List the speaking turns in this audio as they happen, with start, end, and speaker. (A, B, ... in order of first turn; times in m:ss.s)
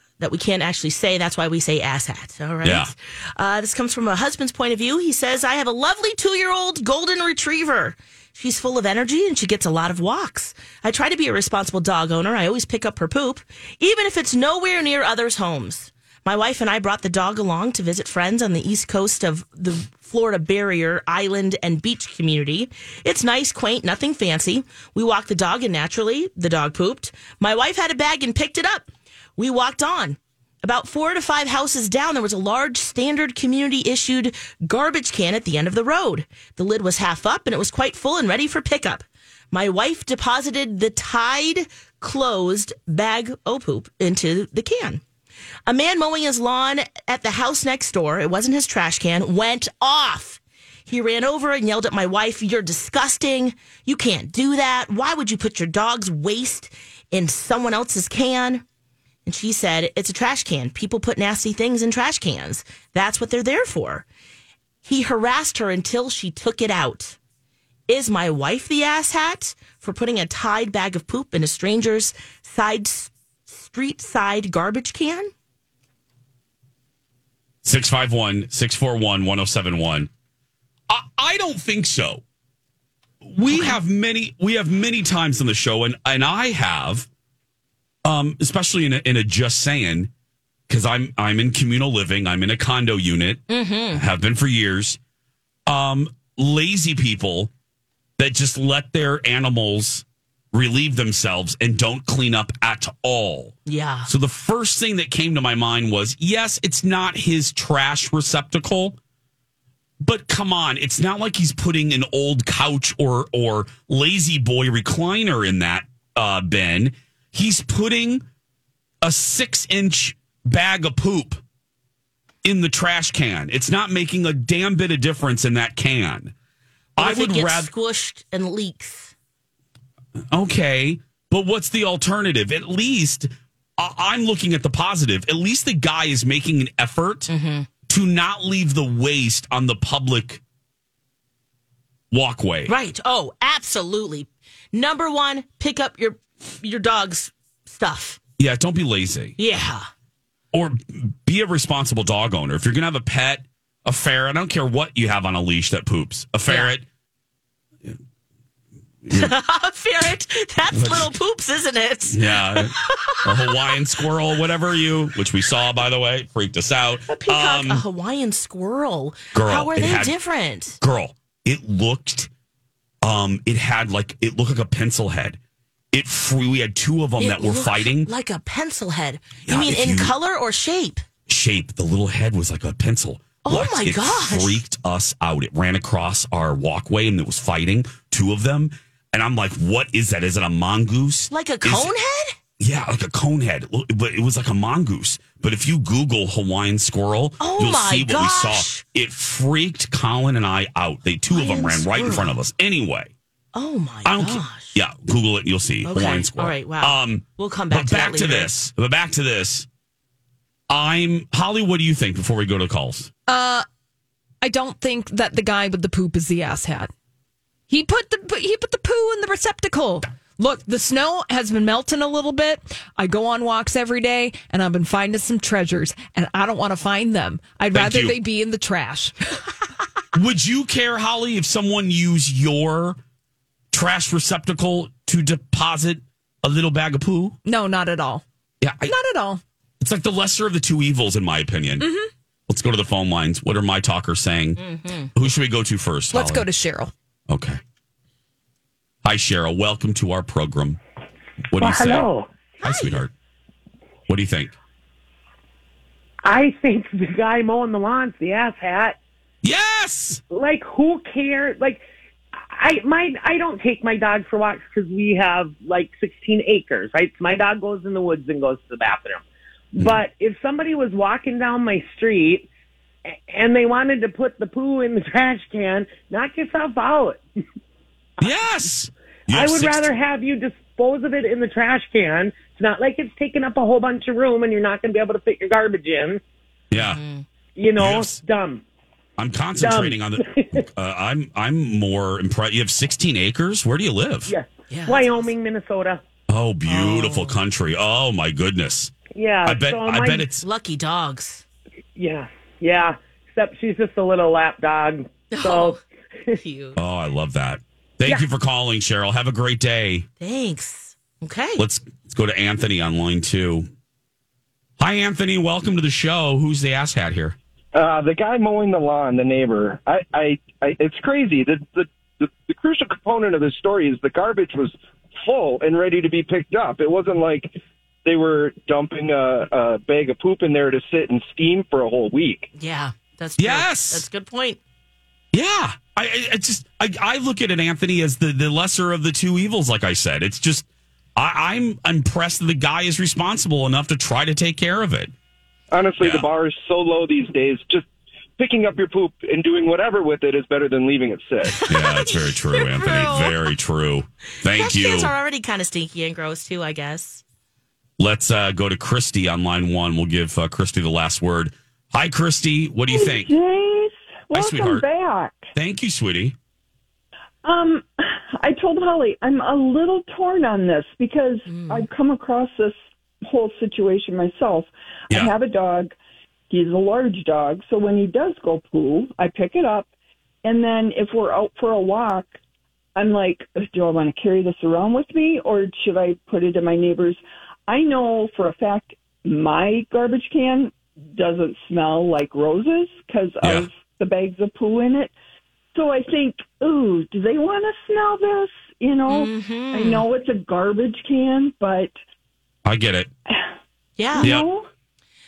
0:00.2-0:45.0 A
0:02.6-0:02.9 B
0:45.7-0:58.6 A
0:59.3-1:04.0 A
1:04.8-1:07.2 A
1:07.9-1:15.3 A
1:17.6-1:20.1 B
1:20.9-1:22.2 B
1:23.2-1:27.1 B
1:23.5-1:23.8 A
1:28.0-1:30.1 B
1:30.7-1:35.0 B
1:33.5-1:34.0 A
1:35.7-1:37.5 B
1:38.2-1:43.5 B
1:43.7-1:44.1 A
1:44.1-1:49.0 B
1:50.0-1:58.2 B
1:59.0-2:01.4 B
2:02.4-2:06.3 B
2:07.0-2:07.7 B
2:07.0-2:09.1 A
2:10.3-2:17.3 B
2:17.3-2:17.7 A
2:17.9-2:20.4 B
2:22.1-2:22.7 B
2:22.7-2:28.2 A
2:28.4-2:29.4 B
2:29.4-2:29.9 A
2:30.5-2:36.8 B
2:36.5-2:36.7 A
2:39.0-2:39.3 B
2:39.1-2:43.8 A
2:40.7-2:41.1 B
2:42.1-2:47.8 B
2:47.1-2:50.8 A
2:49.3-2:50.1 B
2:50.8-2:52.3 B
2:53.0-2:55.4 B
2:55.9-2:58.1 B
2:57.2-3:01.0 A
2:59.5-3:00.1 B
3:01.3-3:11.9 B
3:03.4-3:04.6 A
3:11.3-3:12.4 A
3:12.6-3:23.1 B
3:17.4-3:18.8 A
3:21.3-3:22.3 A
3:23.5-3:24.8 A
3:24.0-3:29.7 B
3:25.8-3:28.5 A
3:30.7-3:33.1 B
3:33.3-3:33.6 C
3:34.4-3:36.9 C
3:37.7-3:49.4 C
3:47.7-3:48.2 B
3:50.1-3:53.0 B
3:53.7-3:57.4 B
3:57.4-3:58.2 C
3:58.6-3:58.9 B
3:58.8-3:59.4 C
3:59.8-4:01.9 B
4:01.8-4:02.1 C
4:02.5-4:04.6 B
4:04.6-4:05.1 A
4:05.1-4:06.5 B
4:06.1-4:06.9 C
4:07.3-4:07.6 B
4:09.0-4:10.8 B
4:11.5-4:12.1 B
4:11.6-4:12.3 D
4:12.6-4:13.1 B
4:12.6-4:13.0 A
4:14.1-4:14.6 B
4:16.2-4:19.0 D
4:19.4-4:20.2 B
4:20.3-4:21.8 D
4:22.4-4:32.5 D
4:33.1-4:37.2 D
4:38.2-4:39.9 B
4:39.3-4:46.2 D
4:46.7-4:47.0 B
4:46.8-4:47.2 A
4:47.6-4:48.6 D
4:47.8-4:48.2 B
4:49.2-4:54.3 B
4:49.6-4:50.6 D
4:54.3-4:56.0 D
4:54.7-4:55.3 A
4:56.3-4:58.9 B
4:56.7-4:57.4 A
4:59.1-5:00.3 D
4:59.4-5:00.4 B
5:00.4-5:01.4 A
5:02.0-5:05.8 D
5:05.3-5:05.8 A
5:06.3-5:06.8 A
5:06.8-5:10.1 B
5:10.2-5:11.6 A
5:11.6-5:13.7 B
5:14.8-5:17.4 B
5:17.7-5:27.5 E
5:28.0-5:32.5 E
5:32.6-5:34.6 A
5:33.4-5:34.0 B
5:35.3-5:45.1 B
5:45.7-5:51.6 E
5:46.0-5:46.3 B
5:51.7-5:55.1 B
5:51.7-5:53.5 A
5:54.5-5:57.2 A
5:58.0-6:03.4 B
6:02.9-6:05.5 F
6:04.3-6:04.9 B
6:05.6-6:06.4 B
6:07.4-6:16.0 F
6:11.5-6:11.8 A
6:16.5-6:19.9 F
6:20.4-6:22.4 F
6:23.0-6:35.1 F
6:33.4-6:33.7 B
6:35.7-6:41.9 F
6:39.1-6:40.0 A
6:42.6-6:43.1 B
6:44.0-6:44.3 A
6:44.1-6:44.7 F
6:44.2-6:44.5 B